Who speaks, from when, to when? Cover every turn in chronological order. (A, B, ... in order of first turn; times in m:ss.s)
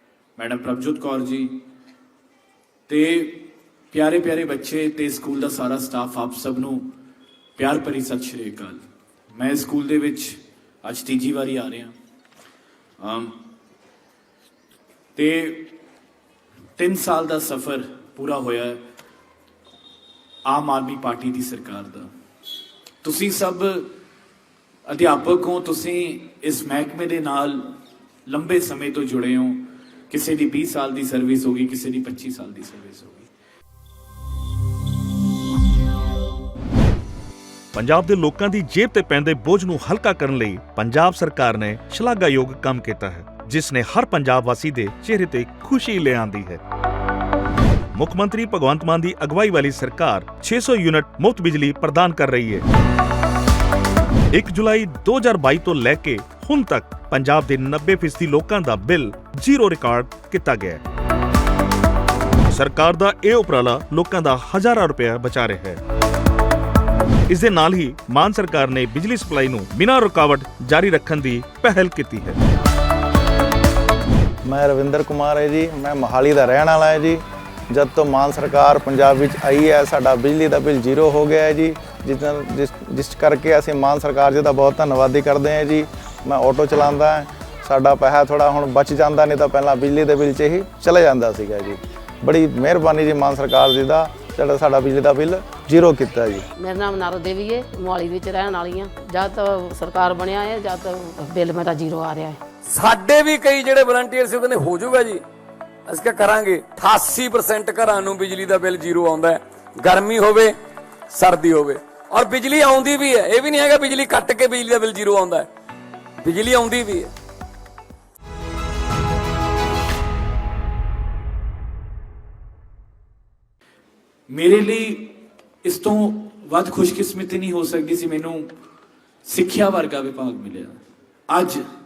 0:00.4-0:01.6 A
0:02.9-0:06.8 A
0:07.6-0:08.8 A
0:09.3-0:11.9 A
0:13.0-0:13.4 A
0:15.1-0:15.7 A
0:16.8-0:18.8 A
0:20.4-0:22.1 A
0:23.0-0:23.9 A
0:24.9-0:27.7 A
0:28.3-0:33.3 A
0:37.7-0:46.6 B
0:47.9-0:52.6 B
0:54.3-1:00.8 B
1:02.5-1:05.8 B
1:07.3-1:12.4 B
1:14.4-1:36.4 C
1:36.6-1:42.4 D
1:42.6-1:45.2 E
1:45.9-1:50.6 E
1:51.1-1:55.5 E
1:56.2-1:57.1 E
2:04.3-2:08.5 A
2:09.2-2:10.8 A
2:11.3-2:11.6 A